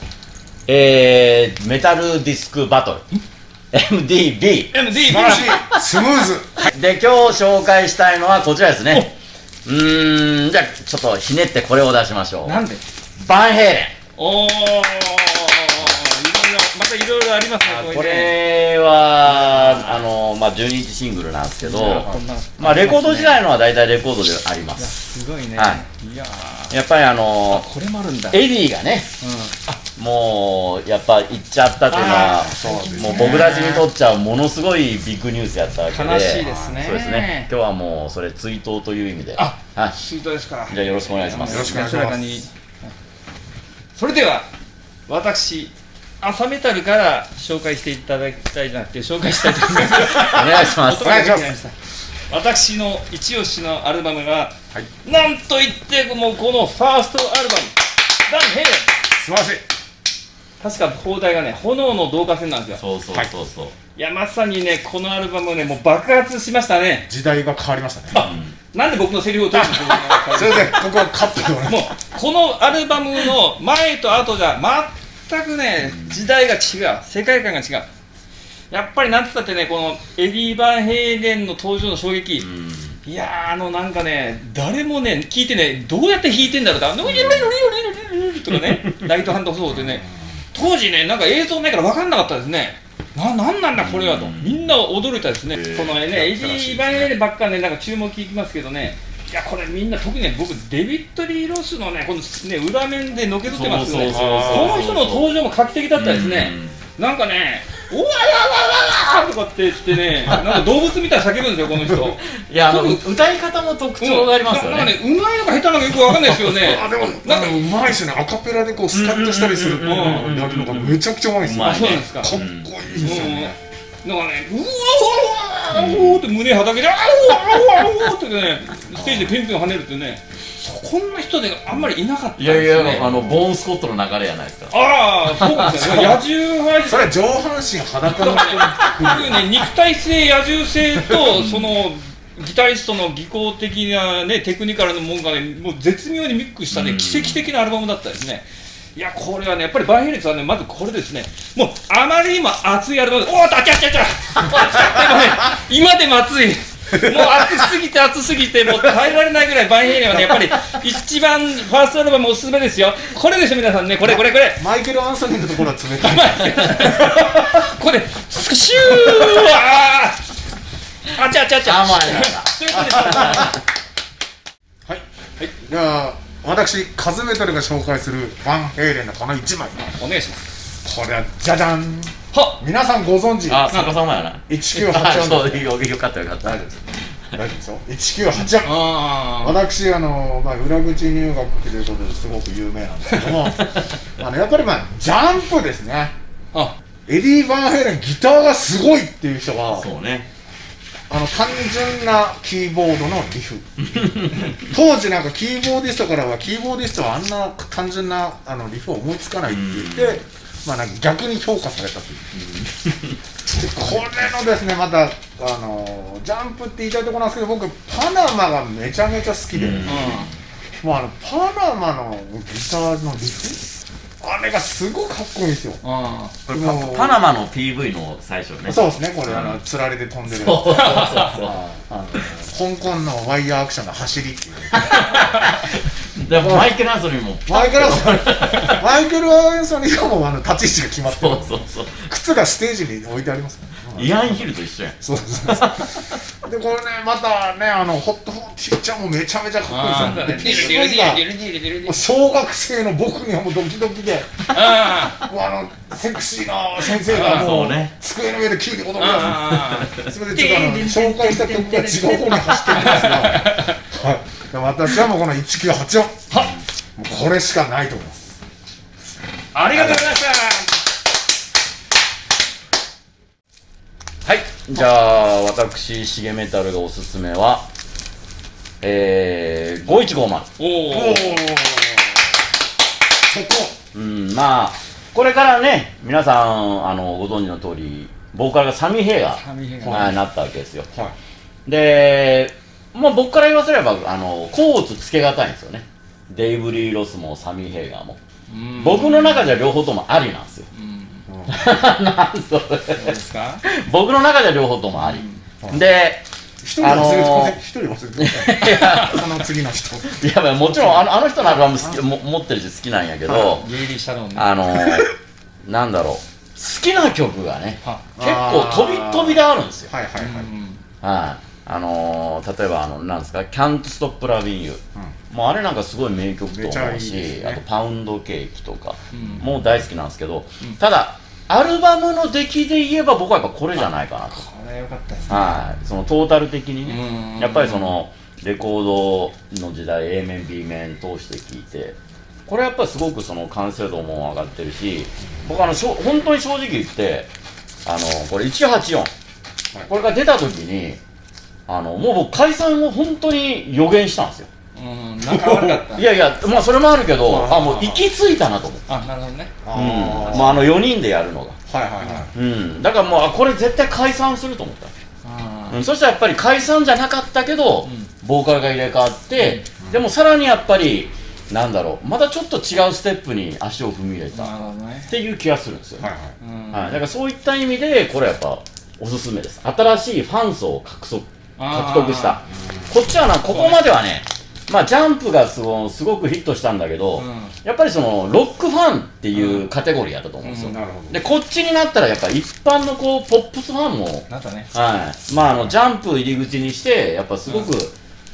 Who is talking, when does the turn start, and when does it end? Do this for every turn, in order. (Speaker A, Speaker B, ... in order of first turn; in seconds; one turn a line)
Speaker A: 0.7-3.0
Speaker A: 3.7-4.7
Speaker B: 4.7-5.6
Speaker C: 4.9-6.7
Speaker A: 6.6-9.1
Speaker A: 9.6-12.6
Speaker B: 12.4-12.8
Speaker A: 13.2-13.9
Speaker B: 14.2-18.4
Speaker A: 17.6-25.0
Speaker B: 19.2-20.0
Speaker B: 21.6-23.5
Speaker B: 24.8-26.8
Speaker A: 25.5-25.8
Speaker A: 26.7-27.7
Speaker B: 27.5-28.4
Speaker A: 28.3-29.1
Speaker B: 29.2-29.8
Speaker A: 29.9-40.0
Speaker C: 31.9-33.6
Speaker B: 32.0-33.9
Speaker B: 35.9-37.5
Speaker C: 36.4-36.8
Speaker B: 39.4-42.9
Speaker A: 40.7-41.8
Speaker C: 41.4-42.4
Speaker B: 43.9-44.5
Speaker B: 45.1-51.7
Speaker A: 50.3-51.2
Speaker C: 51.0-51.5
Speaker B: 52.3-58.9
Speaker C: 59.2-59.6
Speaker B: 60.6-62.8
Speaker A: 62.8-63.7
Speaker B: 64.0-67.1
Speaker C: 67.1-68.2
Speaker B: 68.1-77.9
Speaker A: 68.1-68.5
Speaker C: 69.5-71.9
Speaker A: 75.8-76.2
Speaker B: 78.7-82.5
Speaker A: 82.4-83.0
Speaker B: 83.0-113.0
Speaker A: 87.0-87.5
Speaker A: 88.5-89.1
Speaker C: 89.7-90.2
Speaker A: 93.8-94.7
Speaker A: 95.5-96.2
Speaker C: 96.1-97.1
Speaker A: 103.5-105.3
Speaker C: 104.0-104.9
Speaker A: 105.9-106.8
Speaker A: 112.2-115.0
Speaker B: 114.0-117.7
Speaker C: 116.1-123.6
Speaker A: 118.9-122.7
Speaker B: 119.8-120.4
Speaker B: 121.6-122.4
Speaker B: 123.0-133.2
Speaker A: 125.7-126.2
Speaker C: 128.9-129.4
Speaker A: 132.4-134.7
Speaker C: 132.8-133.4
Speaker B: 134.7-137.1
Speaker A: 135.3-135.7
Speaker C: 135.7-136.2
Speaker C: 136.8-139.6
Speaker B: 138.1-164.6
Speaker A: 141.2-141.7
Speaker A: 146.7-147.4
Speaker C: 164.0-167.2
Speaker B: 166.0-170.2
Speaker B: 171.1-173.6
Speaker A: 171.6-173.6
Speaker C: 172.7-173.5
Speaker C: 174.8-179.9
Speaker B: 180.0-180.4
Speaker C: 180.8-183.7
Speaker B: 182.3-182.6
Speaker A: 183.5-186.6
Speaker B: 183.7-184.0
Speaker C: 184.5-185.7
Speaker C: 186.4-186.8
Speaker C: 187.3-196.1
Speaker B: 188.6-189.6
Speaker A: 193.3-194.0
Speaker C: 197.1-199.9
Speaker A: 199.7-200.3
Speaker C: 201.1-212.4
Speaker A: 203.9-204.5
Speaker A: 209.5-210.2
Speaker A: 212.3-213.2
Speaker C: 213.4-220.2
Speaker A: 219.5-220.3
Speaker B: 219.8-220.3
Speaker C: 220.8-223.7
Speaker C: 224.2-225.8
Speaker B: 225.8-226.3
Speaker C: 226.5-227.3
Speaker A: 226.5-229.6
Speaker C: 228.6-234.9
Speaker A: 230.3-231.6
Speaker B: 230.7-231.3
Speaker A: 234.7-238.9
Speaker C: 236.3-236.7
Speaker C: 237.4-244.5
Speaker A: 241.1-242.1
Speaker A: 243.9-246.1
Speaker C: 245.0-251.3
Speaker B: 249.7-252.0
Speaker A: 249.9-250.7
Speaker C: 251.8-254.6
Speaker B: 254.5-255.2
Speaker C: 255.2-266.4
Speaker A: 257.0-257.9
Speaker B: 259.0-263.8
Speaker B: 266.3-266.5
Speaker C: 267.0-268.4
Speaker B: 269.5-270.8
Speaker C: 269.7-270.1
Speaker A: 274.2-277.7
Speaker A: 278.8-280.5
Speaker B: 280.6-281.4
Speaker C: 280.9-282.2
Speaker C: 283.3-283.8
Speaker A: 283.9-290.9
Speaker B: 289.3-290.2
Speaker C: 289.8-290.1
Speaker A: 291.6-298.2
Speaker B: 298.5-299.6
Speaker A: 298.8-300.7
Speaker B: 300.7-301.2
Speaker C: 301.3-301.6
Speaker A: 301.5-306.2
Speaker B: 302.9-303.6
Speaker B: 305.0-305.4
Speaker C: 306.6-310.2
Speaker A: 306.8-307.6
Speaker A: 308.2-309.3
Speaker A: 310.0-313.7
Speaker C: 310.7-311.0
Speaker C: 313.2-313.6
Speaker B: 313.6-314.5
Speaker A: 314.3-315.1
Speaker C: 314.7-315.1
Speaker A: 315.6-319.9
Speaker C: 318.1-320.5
Speaker B: 320.2-320.8
Speaker A: 321.0-334.4
Speaker C: 326.5-327.6
Speaker B: 329.1-329.5
Speaker C: 329.2-329.5
Speaker B: 334.3-335.6
Speaker A: 335.3-341.9
Speaker B: 336.8-338.0
Speaker A: 342.5-347.3
Speaker A: 347.8-349.1
Speaker A: 349.9-351.0
Speaker A: 351.7-354.5
Speaker B: 354.7-356.1
Speaker A: 355.3-358.9
Speaker C: 357.2-358.1
Speaker B: 358.9-359.5
Speaker C: 359.6-360.7
Speaker A: 359.7-361.6
Speaker B: 360.3-360.6
Speaker C: 361.7-362.3
Speaker B: 362.0-362.2
Speaker A: 362.3-364.9
Speaker B: 365.2-365.8
Speaker A: 365.7-374.5
Speaker B: 367.8-368.1
Speaker B: 369.4-369.6
Speaker B: 374.3-375.1
Speaker A: 375.1-376.1
Speaker C: 376.0-376.4
Speaker B: 376.4-377.0
Speaker A: 376.7-397.9
Speaker B: 381.6-382.4
Speaker B: 383.5-383.9
Speaker B: 387.1-387.5
Speaker B: 389.3-389.7
Speaker B: 390.4-390.7
Speaker C: 390.6-391.2
Speaker B: 394.3-394.7
Speaker B: 397.4-397.7